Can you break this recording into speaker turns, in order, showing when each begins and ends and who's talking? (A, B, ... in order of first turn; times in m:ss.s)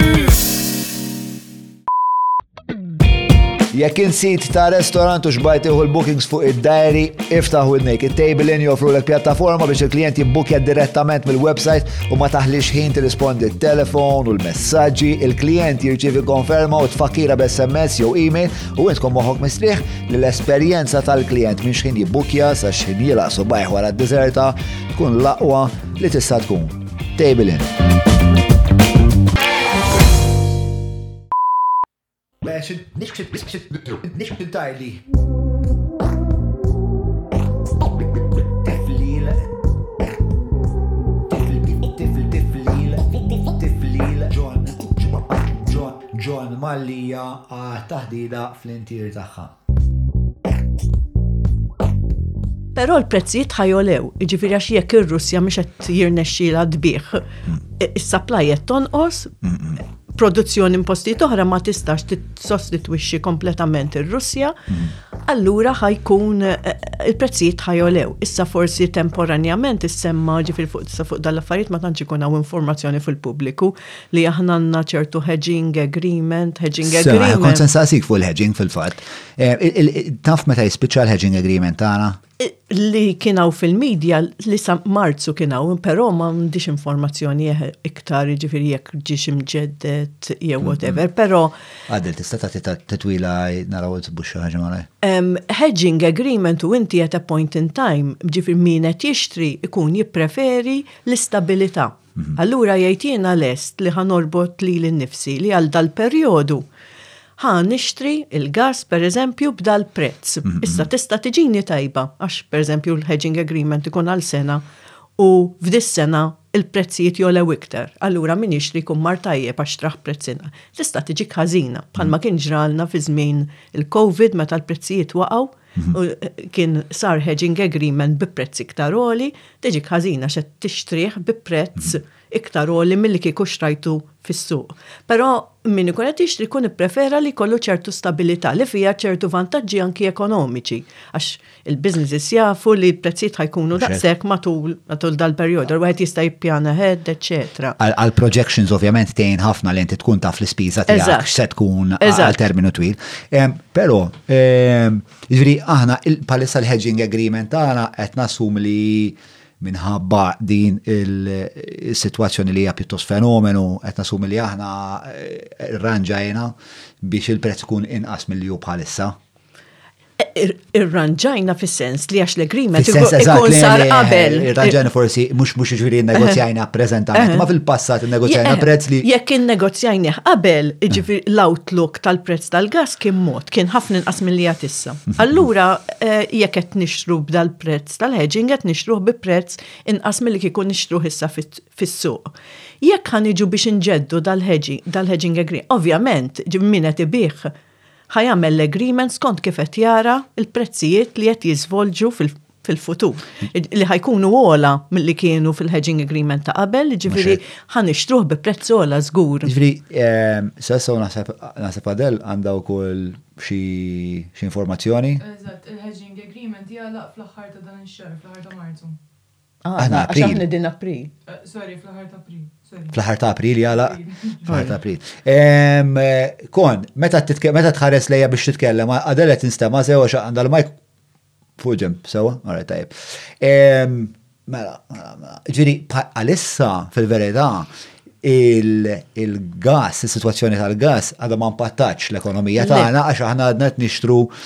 0:03.7-0:27.7 A
0:32.4-0:35.0 A
0:38.6-0:39.5 A
0:41.3-0:49.5 A
0:52.7-1:04.6 B
1:05.2-1:17.7 B
1:16.8-1:22.2 A
1:22.4-1:31.6 B
1:30.6-1:31.0 A
1:31.9-1:34.9 A
1:35.0-1:46.6 B
1:47.4-1:54.6 B
1:55.2-2:27.8 B
2:23.8-2:24.0 A
2:27.8-2:49.1 A
2:30.9-2:31.4 B
2:32.0-2:32.4 B
2:50.2-2:54.8 B
2:52.7-2:59.1 A
2:56.1-2:56.4 B
2:57.1-2:57.5 B
2:58.2-3:17.5 B
3:18.1-3:29.5 B
3:27.1-3:27.4 A
3:29.4-3:35.2 A
3:35.2-3:39.0 C
3:39.6-3:41.1 B
3:39.8-3:40.4 A
3:41.3-3:42.9 C
3:42.9-3:50.7 A
3:43.9-3:44.4 C
3:51.6-3:57.7 A
3:58.2-4:04.3 A
4:02.6-4:02.9 B